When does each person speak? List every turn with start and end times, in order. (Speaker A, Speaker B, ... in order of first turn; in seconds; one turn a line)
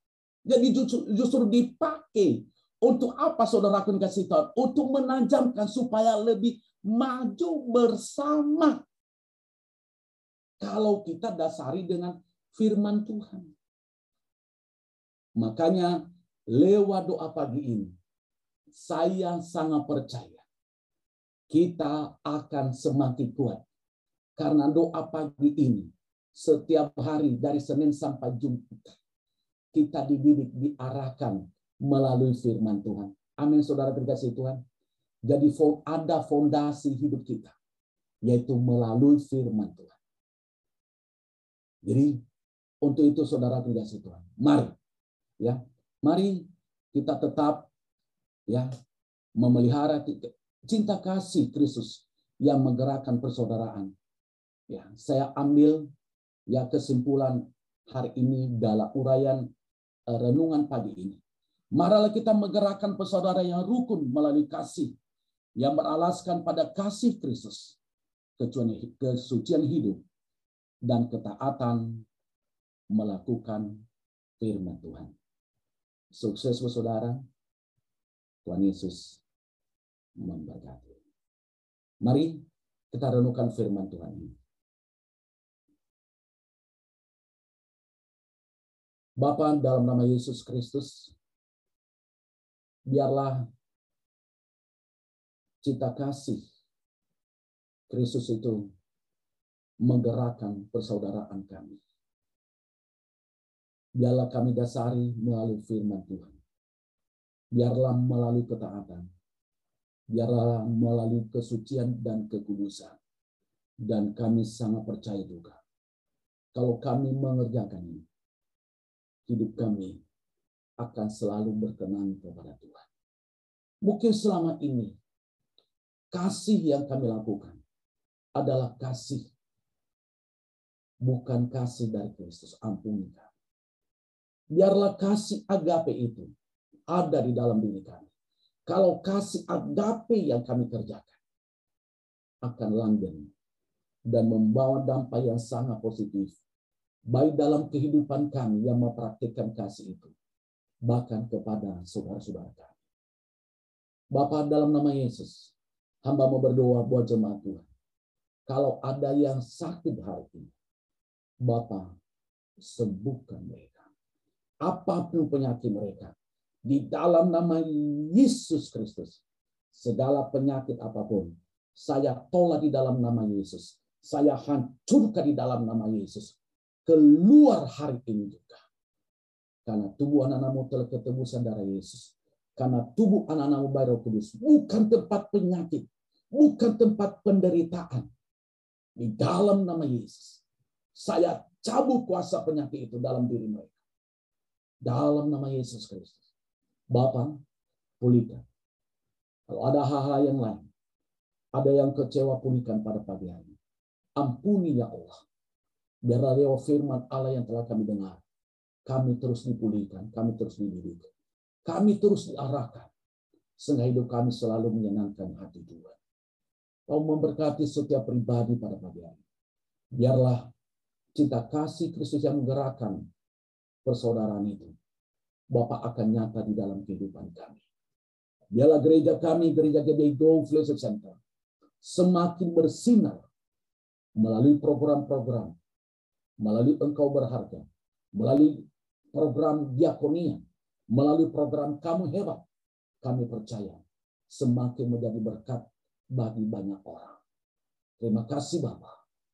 Speaker A: 0.5-8.8
Speaker A: 10.6-13.5
Speaker A: 15.4-17.9
Speaker A: 18.7-20.4
Speaker A: 21.5-23.6
Speaker A: 24.4-29.0
Speaker A: 29.7-34.6
Speaker A: 35.2-37.5
Speaker A: 38.2-40.0
Speaker A: 41.8-42.2
Speaker A: 42.8-44.7
Speaker A: 45.4-47.7
Speaker A: 49.4-53.9
Speaker A: 54.7-55.9
Speaker A: 56.5-59.4
Speaker A: 60.1-61.2
Speaker A: 61.7-64.9
Speaker A: 65.6-67.8
Speaker A: 68.4-70.0
Speaker A: 70.8-72.0
Speaker A: 72.9-73.8
Speaker A: 74.4-75.1
Speaker A: 76.1-77.2
Speaker A: 78.4-79.2
Speaker A: 80.2-81.0
Speaker A: 82.0-84.3
Speaker A: 89.2-91.1
Speaker A: 92.9-93.4
Speaker A: 95.6-96.4
Speaker A: 97.9-98.7
Speaker A: 99.8-101.8
Speaker A: 104.0-106.4
Speaker A: 107.5-109.1
Speaker A: 110.1-113.0
Speaker A: 113.8-115.6
Speaker A: 116.5-118.0
Speaker A: 119.3-120.0
Speaker A: 120.8-122.9
Speaker A: 123.8-124.9
Speaker A: 126.1-127.6
Speaker A: 128.3-129.2
Speaker A: 131.0-133.3
Speaker A: 134.5-136.3
Speaker A: 136.9-138.1
Speaker A: 138.7-141.2
Speaker A: 142.4-143.3
Speaker A: 144.1-146.4
Speaker A: 147.1-150.1
Speaker A: 150.8-152.8
Speaker A: 154.1-155.5
Speaker A: 156.0-157.7
Speaker A: 158.5-160.5
Speaker A: 161.4-161.9
Speaker A: 162.6-163.8
Speaker A: 164.6-166.1
Speaker A: 166.6-169.2
Speaker A: 169.7-178.6
Speaker A: 179.6-188.1
Speaker A: 189.0-190.4
Speaker A: 190.9-193.8
Speaker A: 194.8-196.2
Speaker A: 196.9-197.3
Speaker A: 198.0-198.4
Speaker A: 199.5-200.6
Speaker A: 201.5-203.5
Speaker A: 204.2-205.2
Speaker A: 206.0-208.2
Speaker A: 208.8-211.1
Speaker A: 211.6-212.9
Speaker A: 213.6-216.0
Speaker A: 216.9-219.2
Speaker A: 219.9-220.5
Speaker A: 221.1-223.0
Speaker A: 223.8-224.7
Speaker A: 225.5-227.6
Speaker A: 228.5-231.2
Speaker A: 231.8-233.2
Speaker A: 234.2-235.5
Speaker A: 236.4-242.4
Speaker A: 243.0-247.2
Speaker A: 248.0-249.0